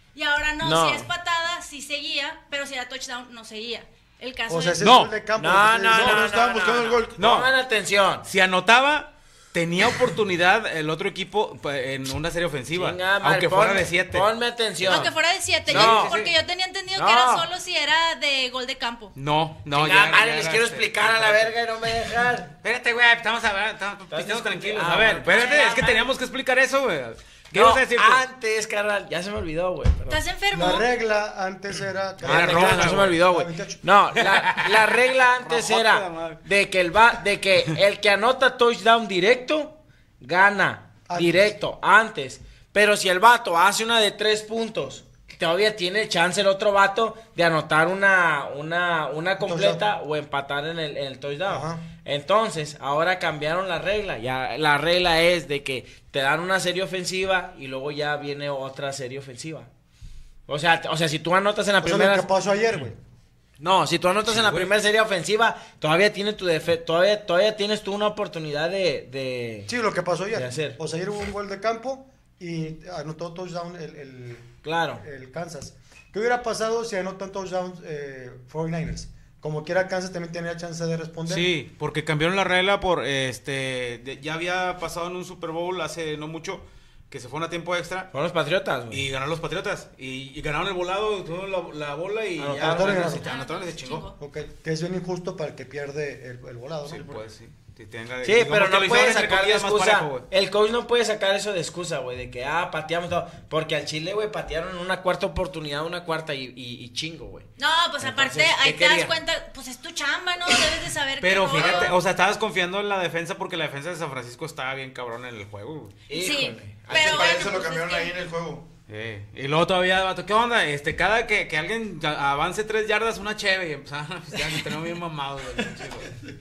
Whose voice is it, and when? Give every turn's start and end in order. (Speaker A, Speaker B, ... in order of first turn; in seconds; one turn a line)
Speaker A: 0.1-4.8
Speaker B: 0.6-1.1
Speaker C: 4.5-6.3
Speaker D: 4.8-5.2
Speaker B: 5.3-8.3
Speaker E: 5.9-7.3
Speaker D: 7.2-7.5
Speaker D: 8.2-14.3
Speaker B: 12.7-15.1
Speaker A: 14.8-19.1
Speaker D: 14.8-15.1
Speaker D: 15.7-16.3
Speaker B: 15.7-16.2
Speaker B: 16.9-17.5
Speaker D: 19.1-21.6
Speaker B: 19.7-22.5
Speaker D: 22.6-28.2
Speaker B: 24.1-26.1
Speaker A: 25.3-26.0
Speaker B: 27.5-30.2
Speaker A: 30.1-30.9
Speaker C: 30.5-33.8
Speaker D: 32.2-33.2
Speaker B: 32.2-59.7
Speaker D: 34.2-36.4
Speaker C: 41.1-41.5
Speaker C: 49.4-49.8
Speaker C: 51.5-51.9
Speaker B: 60.5-62.3
Speaker C: 61.8-63.0
Speaker B: 63.6-69.7
Speaker D: 64.2-64.7
Speaker C: 69.7-81.5
Speaker B: 70.3-70.8
Speaker B: 74.6-75.0
Speaker D: 81.3-88.1
Speaker B: 88.1-89.1
Speaker D: 88.9-94.1
Speaker B: 92.4-93.1
Speaker C: 92.6-93.3
Speaker A: 93.2-94.2
Speaker C: 94.2-97.0
Speaker D: 96.8-100.3
Speaker E: 97.0-97.2
Speaker B: 98.2-107.5
Speaker A: 107.6-112.0
Speaker B: 108.0-109.1
Speaker D: 111.2-115.9
Speaker B: 116.1-117.4
Speaker A: 116.1-118.1
Speaker E: 116.9-118.7
Speaker D: 118.9-126.1